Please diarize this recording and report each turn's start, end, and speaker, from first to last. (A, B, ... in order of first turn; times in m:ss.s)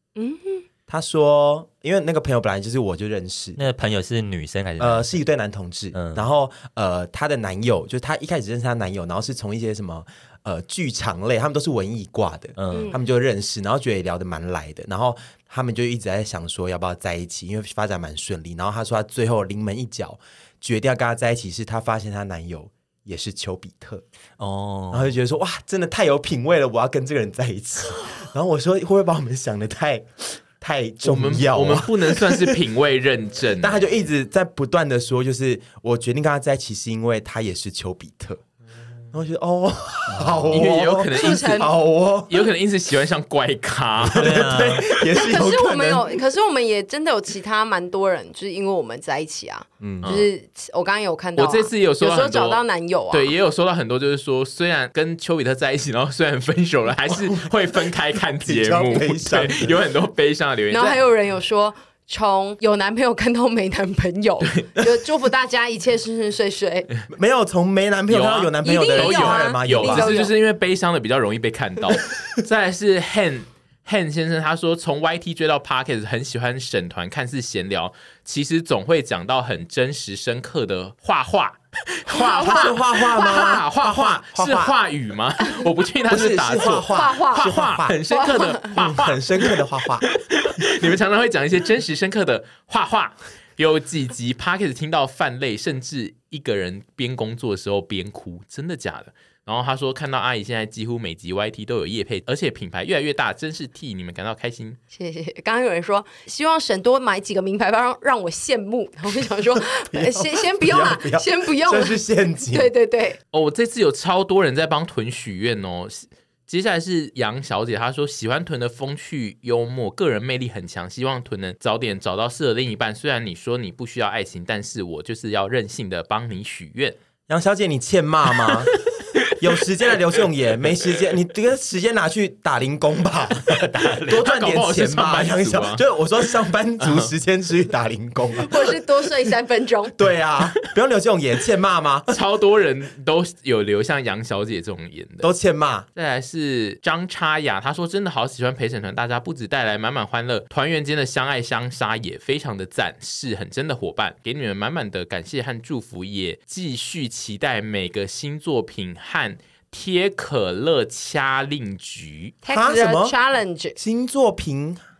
0:00.2-0:00.6 A
0:00.9-0:03.6 B
0:03.6-0:05.2 C
0:04.8-0:24.0 B
0:05.9-0:06.2 C
0:12.6-0:12.9 C
0:12.7-0:13.0 A
0:24.4-0:25.1 C
0:24.9-0:32.6 B
0:31.0-0:33.8 D
0:33.6-0:38.4 B
0:39.1-0:42.4 B
0:40.2-0:40.4 C
0:40.5-0:41.7 D
0:41.1-0:41.7 A
0:42.3-0:44.5 D
0:44.1-0:45.0 C
0:44.1-0:46.2 B
0:45.1-0:53.3 A
0:49.8-0:50.1 B
0:50.0-0:50.3 D
0:51.4-1:01.0 D
0:57.1-0:57.5 B
0:58.4-0:59.8 B
1:00.7-1:06.9 A
1:07.1-1:10.2 B
1:08.1-1:44.8 D
1:08.6-1:10.3 A
1:22.1-1:23.6 A
1:22.4-1:24.7 B
1:26.1-1:28.0 B
1:26.9-1:27.5 A
1:28.1-1:28.7 A
1:28.8-1:30.1 B
1:44.9-1:52.0 A
1:49.9-1:52.7 B
1:52.5-1:53.2 A
1:53.3-2:07.0 D
2:07.3-2:08.8 B
2:09.3-2:18.5 B
2:13.5-2:14.2 C
2:14.1-2:15.8 D
2:16.8-2:17.1 D
2:18.4-2:19.9 A
2:20.0-2:22.1 B
2:22.1-2:25.3 D
2:25.2-2:25.9 B
2:26.0-2:42.4 D
2:42.4-2:43.8 A
2:42.5-2:43.1 B
2:43.8-2:44.8 B